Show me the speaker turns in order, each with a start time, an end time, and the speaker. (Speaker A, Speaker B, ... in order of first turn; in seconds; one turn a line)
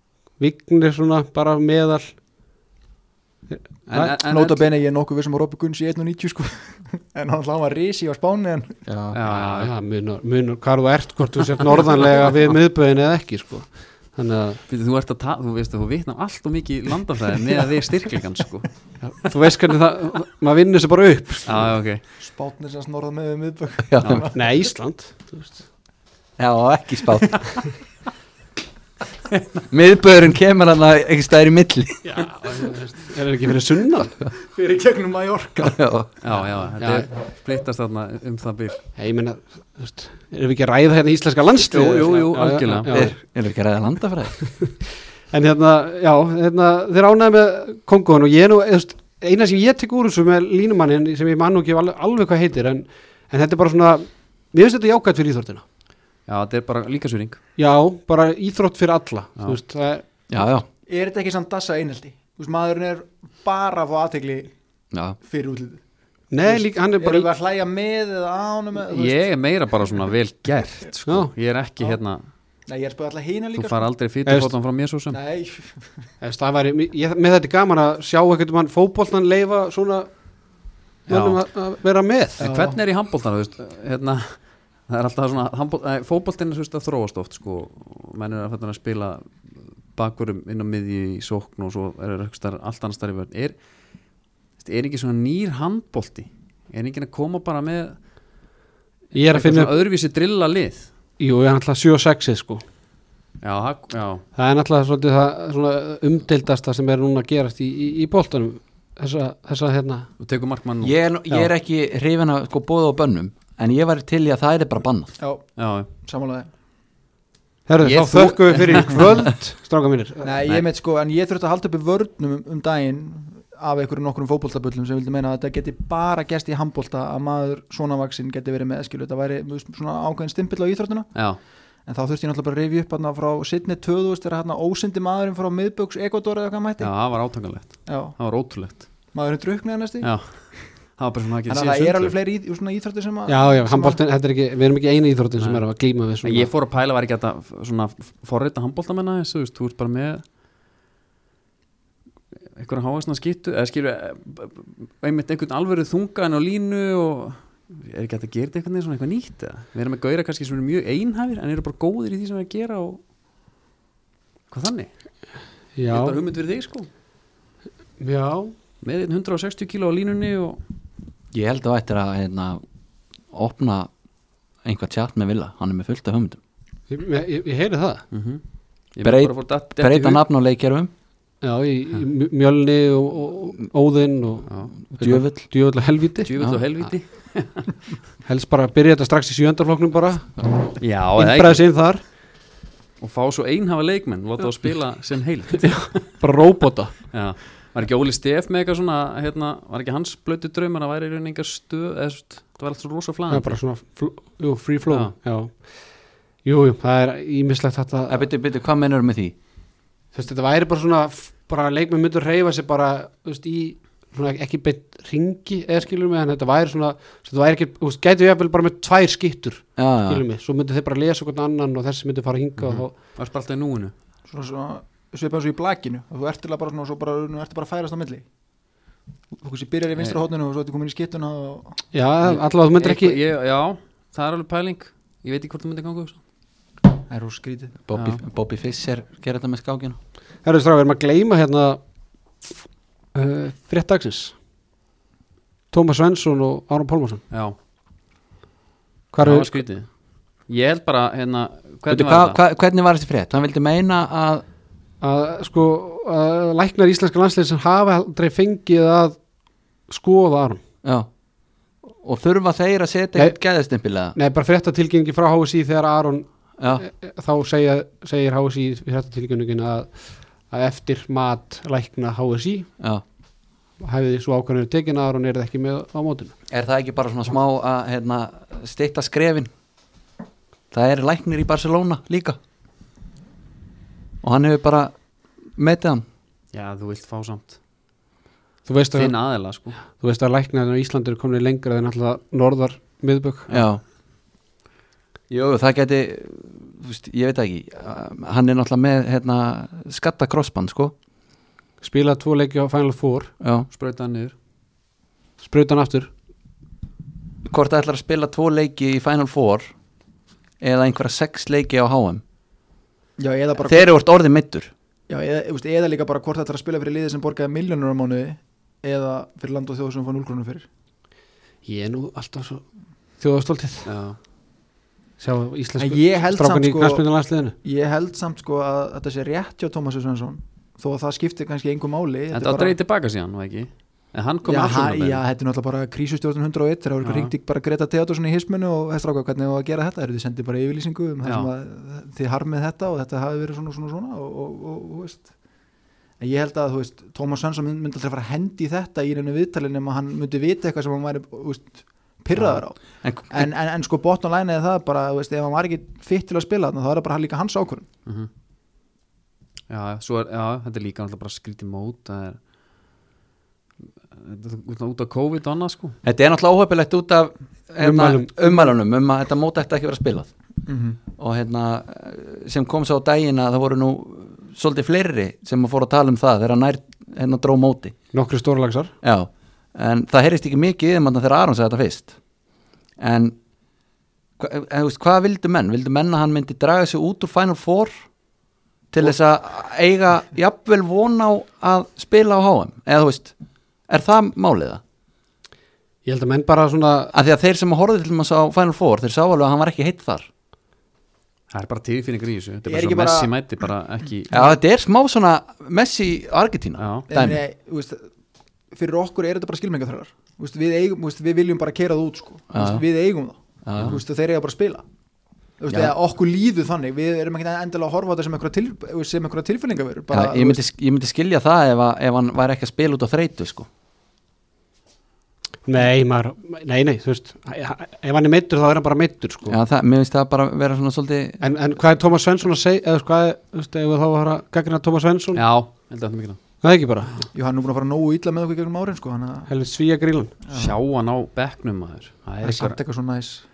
Speaker A: 0.4-2.1
Speaker A: 3.5-4.1
Speaker B: 3.9-4.7
Speaker C: 4.2-8.8
Speaker A: 8.9-14.6
Speaker B: 9.1-9.7
Speaker B: 14.7-18.7
Speaker A: 19.2-21.7
Speaker B: 21.4-22.0
Speaker C: 22.2-24.4
Speaker D: 23.9-24.2
Speaker A: 24.3-25.6
Speaker D: 26.4-27.6
Speaker D: 29.7-32.1
Speaker A: 32.0-34.2
Speaker C: 34.4-35.8
Speaker D: 35.6-36.1
Speaker B: 36.2-38.8
Speaker A: 36.8-37.1
Speaker A: 39.0-43.2
Speaker B: 41.7-43.0
Speaker D: 42.9-44.4
Speaker A: 45.3-55.6
Speaker B: 56.3-57.4
Speaker A: 57.6-60.1
Speaker D: 60.3-60.7
Speaker C: 60.9-64.5
Speaker C: 65.2-65.8
Speaker A: 66.3-67.3
Speaker C: 66.4-69.3
Speaker B: 68.9-72.2
Speaker C: 72.7-73.9
Speaker B: 73.5-75.2
Speaker A: 74.3-74.5
Speaker C: 75.1-76.1
Speaker A: 76.2-80.1
Speaker A: 81.1-82.4
Speaker B: 81.1-81.4
Speaker C: 82.4-82.8
Speaker B: 82.4-89.3
Speaker B: 90.0-93.6
Speaker B: 94.6-98.0
Speaker A: 99.1-99.7
Speaker B: 99.2-100.9
Speaker A: 101.2-102.6
Speaker B: 103.4-104.2
Speaker A: 104.4-110.1
Speaker B: 110.2-111.0
Speaker D: 110.8-115.1
Speaker C: 115.2-116.5
Speaker B: 115.6-115.9
Speaker A: 117.7-120.4
Speaker B: 117.8-119.0
Speaker C: 120.2-131.3
Speaker B: 131.1-131.4
Speaker C: 131.8-136.9
Speaker B: 136.8-138.9
Speaker C: 137.9-138.2
Speaker C: 139.1-140.6
Speaker B: 140.0-142.2
Speaker C: 141.5-144.0
Speaker A: 143.3-146.5
Speaker B: 145.4-145.6
Speaker B: 146.2-150.2
Speaker B: 152.6-163.0
Speaker B: 164.5-164.9
Speaker A: 165.8-166.2
Speaker B: 165.9-166.9
Speaker A: 168.0-168.6
Speaker B: 168.8-170.6
Speaker D: 171.3-172.6
Speaker D: 173.3-173.9
Speaker D: 174.6-176.4
Speaker A: 176.9-178.1
Speaker B: 178.1-180.2
Speaker D: 179.0-180.9
Speaker A: 181.4-186.3
Speaker D: 185.0-185.5
Speaker B: 186.2-187.8
Speaker A: 188.2-192.0
Speaker B: 190.8-191.7
Speaker B: 193.0-196.1
Speaker A: 195.9-196.9
Speaker B: 197.1-203.6
Speaker A: 203.3-208.3
Speaker B: 204.9-205.1
Speaker D: 208.1-209.3
Speaker A: 210.1-222.9
Speaker D: 219.8-220.2
Speaker B: 222.6-223.9
Speaker C: 224.3-228.3
Speaker C: 229.4-231.9
Speaker A: 231.9-233.2
Speaker B: 232.2-236.2
Speaker C: 237.1-237.8
Speaker D: 237.9-240.0
Speaker B: 237.9-238.2
Speaker A: 240.4-241.8
Speaker A: 243.1-244.3
Speaker A: 245.7-247.2
Speaker B: 247.3-247.6
Speaker A: 249.1-249.6
Speaker B: 249.2-249.9
Speaker B: 250.5-252.4
Speaker D: 251.9-254.4
Speaker A: 255.0-259.2
Speaker A: 259.9-260.6
Speaker D: 260.8-261.1
Speaker D: 261.8-264.2
Speaker A: 264.1-272.7
Speaker D: 266.6-266.9
Speaker A: 273.8-276.3
Speaker D: 276.5-279.5
Speaker D: 280.7-282.4
Speaker D: 284.2-284.9
Speaker D: 285.6-286.0
Speaker B: 286.5-287.6
Speaker A: 288.7-289.2
Speaker B: 288.9-289.8
Speaker A: 289.8-293.5
Speaker D: 293.5-293.8
Speaker D: 295.3-300.9
Speaker A: 301.8-303.3
Speaker D: 303.4-303.7
Speaker B: 303.7-304.3
Speaker A: 305.4-306.1
Speaker D: 307.4-309.7
Speaker D: 310.6-312.2
Speaker C: 313.2-313.9
Speaker D: 313.6-314.7
Speaker C: 315.1-320.7
Speaker A: 321.6-322.6
Speaker A: 323.2-323.9
Speaker B: 323.9-324.2
Speaker A: 325.2-327.6
Speaker C: 325.8-327.1
Speaker C: 327.6-332.8
Speaker B: 332.3-335.2
Speaker C: 334.4-345.3
Speaker B: 337.0-337.3
Speaker B: 341.2-341.5
Speaker C: 346.2-357.9
Speaker D: 353.0-353.5
Speaker B: 359.7-362.4
Speaker B: 364.1-366.0
Speaker D: 366.0-370.3
Speaker A: 367.8-368.7
Speaker C: 370.7-371.0
Speaker D: 371.2-377.9
Speaker A: 378.1-378.9
Speaker D: 379.0-382.2
Speaker D: 383.0-383.4
Speaker D: 384.4-387.9
Speaker D: 388.9-393.3
Speaker D: 393.9-394.8
Speaker A: 396.1-397.1
Speaker D: 397.1-400.3
Speaker B: 401.5-404.5
Speaker C: 402.7-403.3
Speaker D: 404.3-407.4
Speaker B: 406.8-407.1
Speaker C: 407.1-408.1
Speaker C: 408.7-414.9
Speaker D: 412.5-412.8
Speaker D: 413.6-414.0
Speaker B: 413.8-414.0
Speaker C: 415.6-420.6
Speaker D: 415.7-415.9
Speaker D: 420.1-423.7
Speaker A: 425.6-429.6
Speaker D: 429.5-431.4
Speaker A: 431.4-435.4
Speaker B: 435.3-436.4
Speaker A: 436.6-437.3
Speaker C: 437.3-439.5
Speaker A: 439.5-440.3
Speaker C: 440.4-440.8
Speaker B: 440.5-442.8
Speaker C: 442.4-443.4